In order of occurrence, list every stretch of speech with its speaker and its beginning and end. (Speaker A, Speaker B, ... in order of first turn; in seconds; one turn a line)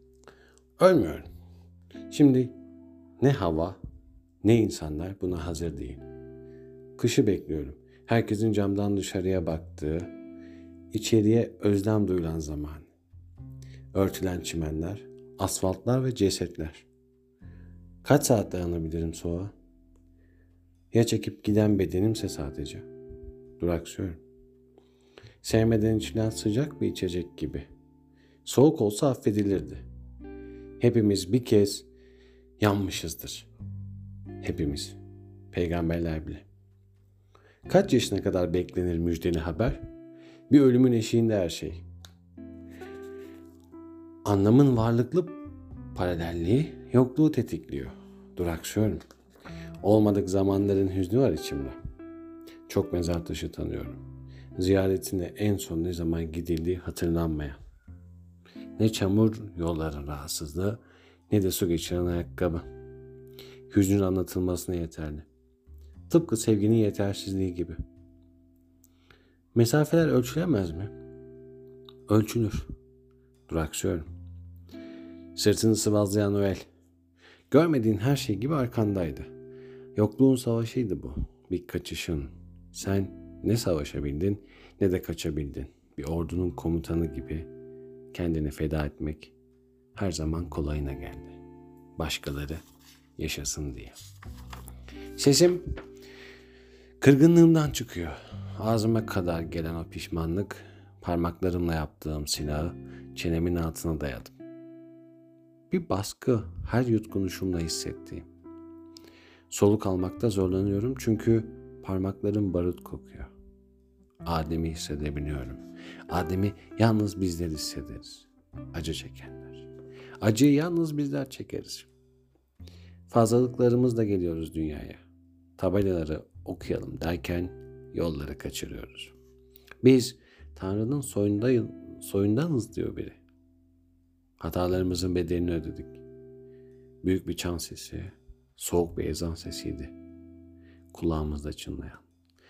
Speaker A: 0.8-1.3
Speaker A: 2.1-2.5
Speaker A: 3.2-3.8
Speaker A: 4.4-6.0
Speaker A: 7.0-10.1
Speaker A: 10.9-12.9
Speaker A: 13.9-16.9
Speaker A: 18.0-19.5
Speaker A: 20.9-22.9
Speaker A: 23.6-24.2
Speaker A: 25.4-27.7
Speaker A: 28.4-29.8
Speaker A: 30.8-31.9
Speaker A: 32.6-33.5
Speaker A: 34.4-35.0
Speaker A: 35.5-36.4
Speaker A: 37.7-39.8
Speaker A: 40.5-41.8
Speaker A: 44.2-45.4
Speaker A: 45.9-49.0
Speaker A: 49.8-51.8
Speaker A: 52.7-54.0
Speaker A: 54.5-57.6
Speaker A: 58.8-62.6
Speaker A: 63.7-65.2
Speaker A: 66.1-67.8
Speaker A: 69.5-70.9
Speaker A: 72.1-72.7
Speaker A: 73.5-74.1
Speaker A: 75.3-76.7
Speaker A: 77.5-79.3
Speaker A: 80.0-87.5
Speaker A: 88.1-89.3
Speaker A: 90.0-91.4
Speaker A: 92.0-92.6
Speaker A: 93.2-94.0
Speaker A: 95.2-95.7
Speaker A: 97.0-104.3
Speaker A: 105.7-108.3
Speaker A: 109.5-113.3
Speaker A: 114.2-119.7
Speaker A: 120.2-121.9
Speaker A: 123.1-125.0
Speaker A: 125.6-129.1
Speaker A: 129.8-133.2
Speaker A: 134.4-136.0
Speaker A: 137.0-139.9
Speaker A: 140.9-142.0